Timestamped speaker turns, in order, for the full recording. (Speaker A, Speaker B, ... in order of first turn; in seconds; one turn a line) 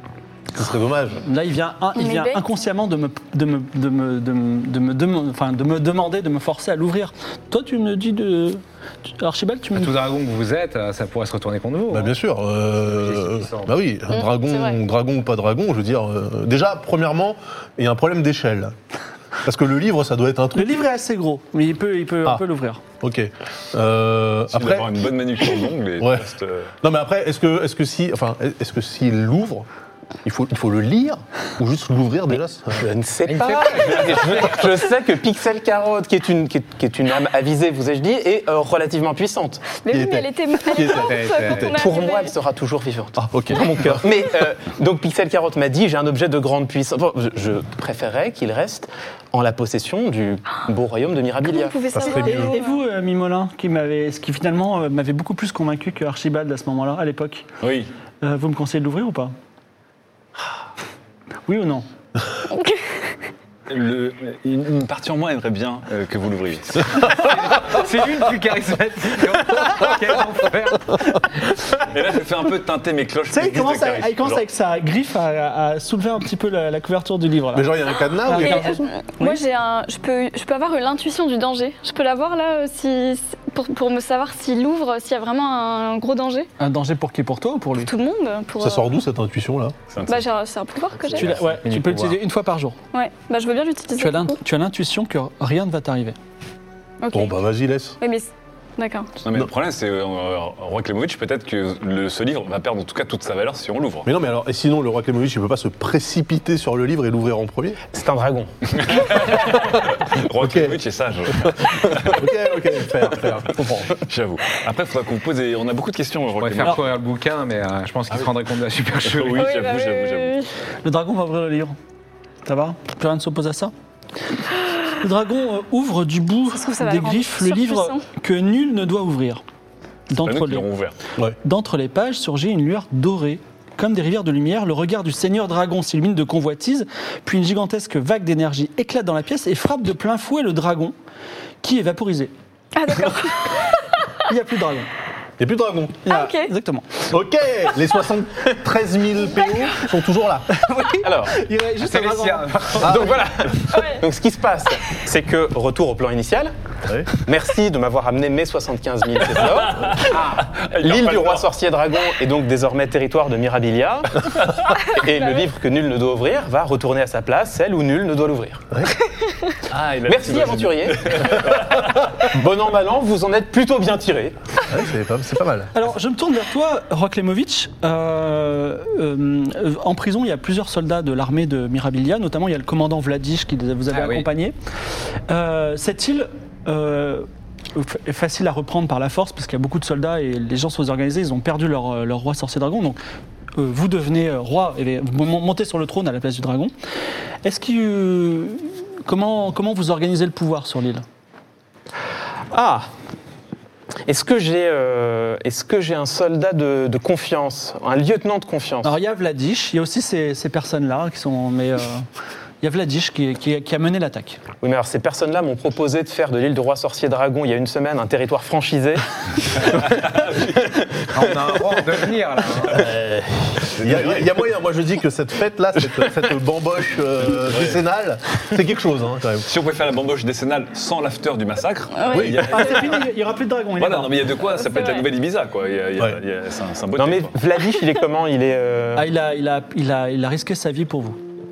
Speaker A: 0.5-1.2
Speaker B: 1.2-8.6
Speaker C: 1.9-2.5
Speaker B: 9.2-9.9
Speaker D: 9.8-12.2
Speaker A: 11.9-18.7
Speaker D: 12.9-13.7
Speaker C: 14.1-14.8
Speaker A: 19.4-20.8
Speaker B: 20.6-22.8
Speaker A: 23.0-25.1
Speaker E: 24.5-26.7
Speaker A: 26.0-26.3
Speaker A: 26.8-29.7
Speaker A: 30.2-32.9
Speaker F: 32.8-39.7
Speaker D: 33.3-34.7
Speaker C: 39.7-42.3
Speaker A: 39.9-41.8
Speaker D: 41.0-41.6
Speaker F: 41.7-51.8
Speaker A: 43.2-44.0
Speaker C: 51.4-52.8
Speaker A: 51.9-52.6
Speaker B: 52.2-57.5
Speaker E: 57.6-57.9
Speaker B: 58.2-59.3
Speaker B: 61.5-61.9
Speaker C: 62.5-62.8
Speaker E: 63.7-67.2
Speaker D: 67.1-71.2
Speaker E: 71.7-74.4
Speaker B: 73.3-77.7
Speaker A: 77.5-78.8
Speaker B: 78.3-79.4
Speaker C: 78.3-86.5
Speaker B: 86.6-87.9
Speaker C: 87.8-88.9
Speaker A: 88.6-89.8
Speaker E: 89.9-90.3
Speaker C: 90.1-91.4
Speaker B: 91.2-92.8
Speaker E: 91.2-92.0
Speaker D: 91.5-92.0
Speaker C: 92.9-94.4
Speaker B: 94.0-96.2
Speaker C: 97.0-97.4
Speaker A: 97.1-98.0
Speaker C: 98.0-99.1
Speaker E: 99.2-104.1
Speaker A: 104.0-107.8
Speaker F: 107.9-108.5
Speaker E: 108.7-112.2
Speaker A: 110.4-110.8
Speaker A: 111.3-113.9
Speaker E: 114.0-116.8
Speaker D: 116.3-119.5
Speaker E: 119.0-120.5
Speaker C: 119.3-120.5
Speaker B: 120.8-121.8
Speaker B: 122.5-123.7
Speaker B: 124.9-129.4
Speaker C: 126.6-128.0
Speaker B: 130.1-130.7
Speaker E: 130.2-131.0
Speaker B: 131.4-140.9
Speaker B: 141.6-142.3
Speaker C: 142.8-144.1
Speaker B: 144.3-144.9
Speaker A: 145.4-146.1
Speaker B: 146.1-147.1
Speaker C: 146.1-146.5
Speaker A: 147.1-150.5
Speaker B: 150.5-152.9
Speaker F: 151.0-151.4
Speaker D: 151.8-153.1
Speaker F: 152.8-156.5
Speaker A: 152.8-153.3
Speaker C: 153.7-154.0
Speaker F: 157.1-160.0
Speaker E: 159.6-161.5
Speaker D: 160.1-160.4
Speaker F: 160.8-164.2
Speaker C: 164.5-165.5
Speaker F: 165.0-168.7
Speaker C: 169.2-169.5
Speaker E: 169.7-171.8
Speaker F: 170.1-174.4
Speaker A: 174.7-175.7
Speaker B: 175.7-184.6
Speaker D: 183.9-184.3
Speaker B: 185.3-193.0
Speaker B: 193.6-196.7
Speaker B: 197.4-201.0
Speaker F: 202.5-202.9
Speaker F: 204.1-209.0
Speaker B: 208.8-212.1
Speaker B: 212.6-214.4
Speaker F: 214.6-219.0
Speaker F: 219.6-222.1
Speaker E: 220.0-220.5
Speaker D: 221.1-222.9
Speaker F: 222.7-223.1
Speaker A: 222.8-223.1
Speaker A: 223.7-229.5
Speaker E: 223.8-224.2
Speaker E: 227.3-227.8
Speaker E: 229.5-233.1
Speaker C: 231.9-232.3
Speaker A: 232.1-232.5
Speaker B: 232.4-234.4
Speaker E: 233.8-237.4
Speaker C: 234.7-235.1
Speaker F: 237.0-239.1
Speaker B: 238.9-241.2